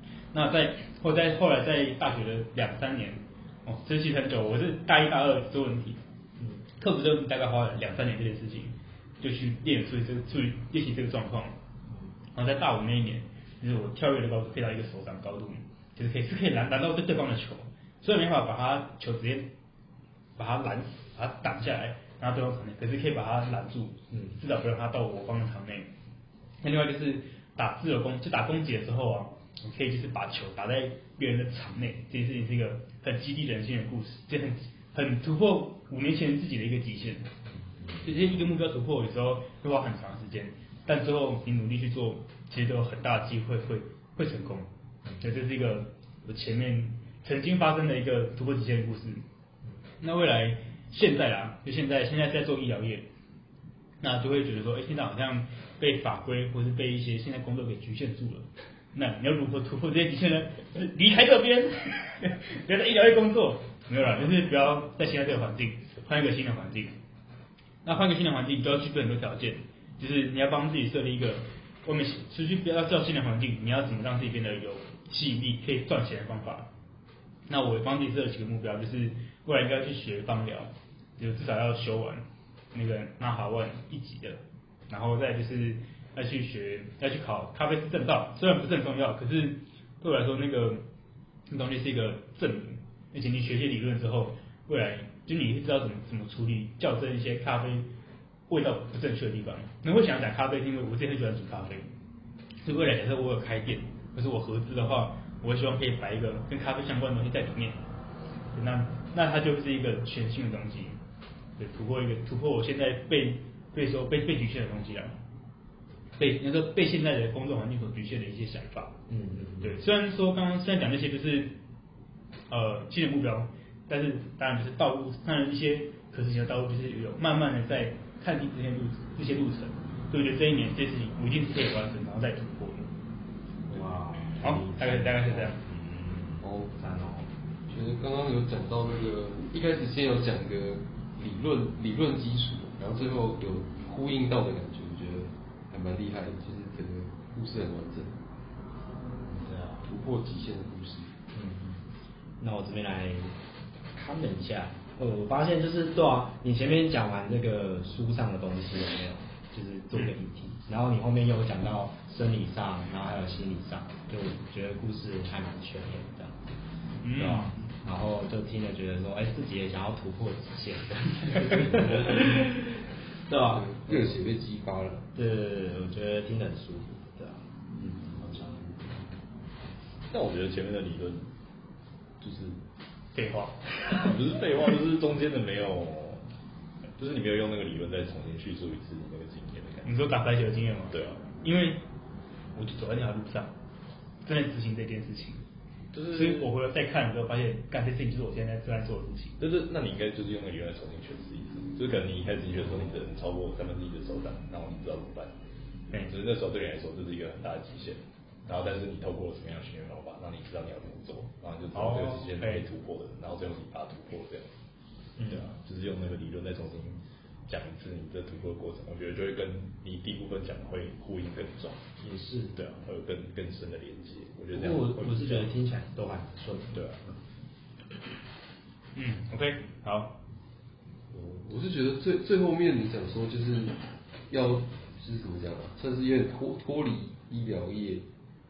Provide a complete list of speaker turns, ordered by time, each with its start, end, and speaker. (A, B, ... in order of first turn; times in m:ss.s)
0:00.3-0:06.0 A
0:06.8-0:11.5 A
0:12.3-0:19.5 A
0:20.4-0:25.9 A
0:26.6-0:37.3 A
0:38.0-0:44.7 A
0:45.2-0:49.2 A
0:50.0-0:53.1 A
0:54.0-1:07.0 A
1:07.8-1:16.7 A
1:17.5-1:30.8 A
1:31.5-1:37.9 A
1:38.5-1:41.9 A
1:42.6-1:47.8 A
1:48.5-1:51.0 A
1:51.6-1:55.1 A
1:56.2-1:59.0 A
1:59.1-1:59.8 B
1:59.6-2:01.6 A
2:02.5-2:12.9 A
2:13.7-2:15.5 B
2:14.4-2:15.6 A
2:15.7-2:16.4 C
2:16.4-2:16.7 D
2:16.8-2:17.3 B
2:17.7-2:28.1 D
2:29.3-2:29.8 B
2:29.8-2:31.1 D
2:31.3-2:31.8 B
2:32.4-2:33.3 B
2:33.9-2:46.4 B
2:47.0-2:47.7 A
2:47.1-2:54.1 B
2:51.8-2:52.2 C
2:53.6-2:55.0 D
2:55.1-2:59.0 B
3:00.1-3:01.3 C
3:02.2-3:02.6 C
3:03.1-3:03.6 A
3:03.9-3:06.2 C
3:07.0-3:10.0 C
3:09.8-3:11.8 A
3:10.9-3:11.3 C
3:12.5-3:13.5 A
3:14.2-3:15.4 A
3:15.9-3:16.5 C
3:16.1-3:19.4 A
3:19.4-3:25.3 C
3:26.0-3:34.5 C
3:31.7-3:32.6 A
3:35.2-3:35.4 B
3:35.2-3:41.8 C
3:42.0-3:42.6 B
3:42.5-3:45.5 C
3:44.5-3:46.8 B
3:46.7-3:47.2 C
3:48.9-3:50.1 A
3:51.1-3:53.8 D
3:54.3-3:58.0 D